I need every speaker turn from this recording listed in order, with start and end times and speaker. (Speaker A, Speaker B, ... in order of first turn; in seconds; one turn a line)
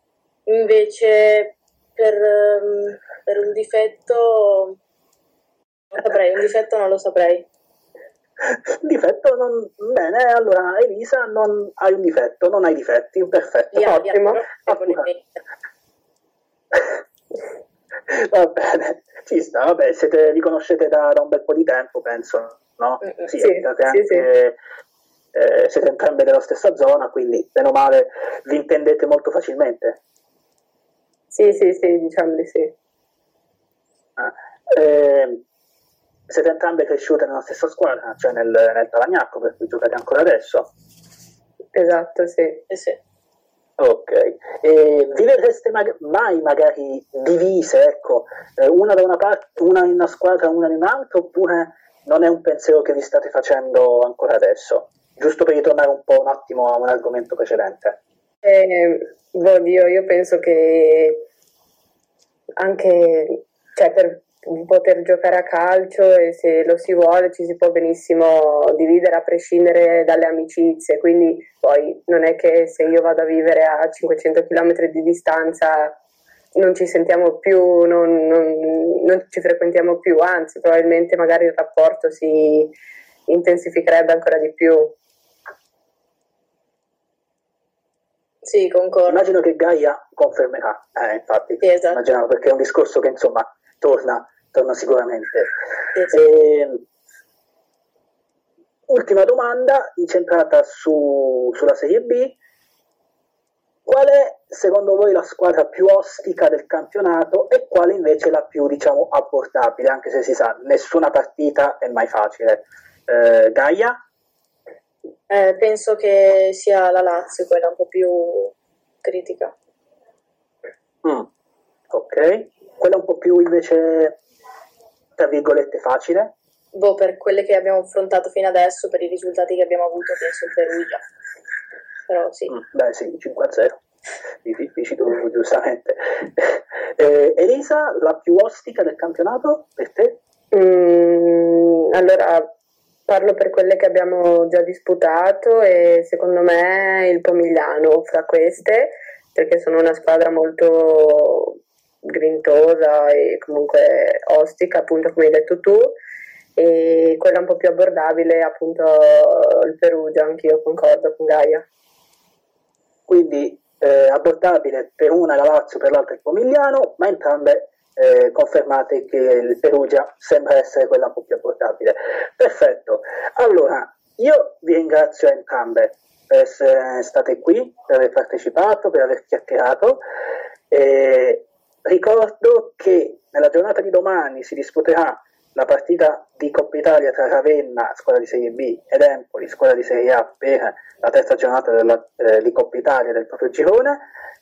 Speaker A: 0.5-4.8
Speaker A: 5.9-7.5
Speaker B: 8.4-15.1
Speaker A: 13.7-15.2
Speaker C: 14.1-14.4
Speaker B: 18.1-24.6
Speaker C: 23.4-24.2
Speaker B: 25.3-30.0
Speaker C: 31.3-32.7
Speaker B: 34.2-35.4
Speaker B: 36.3-40.7
Speaker C: 41.7-42.6
Speaker A: 42.7-43.0
Speaker B: 43.8-58.0
Speaker C: 58.4-61.2
Speaker C: 62.6-76.0
Speaker C: 76.5-82.7
Speaker C: 83.3-85.0
Speaker A: 88.4-89.2
Speaker B: 89.1-95.5
Speaker A: 91.6-92.0
Speaker B: 96.1-96.8
Speaker B: 98.9-102.4
Speaker B: 103.8-114.0
Speaker A: 115.3-119.5
Speaker B: 121.9-124.2
Speaker B: 125.2-126.3
Speaker A: 126.7-131.0
Speaker A: 132.1-132.6
Speaker B: 132.5-133.8
Speaker B: 134.4-140.2
Speaker C: 140.5-142.5
Speaker C: 143.1-155.9
Speaker C: 156.6-161.7
Speaker B: 163.1-180.0
Speaker B: 180.7-194.0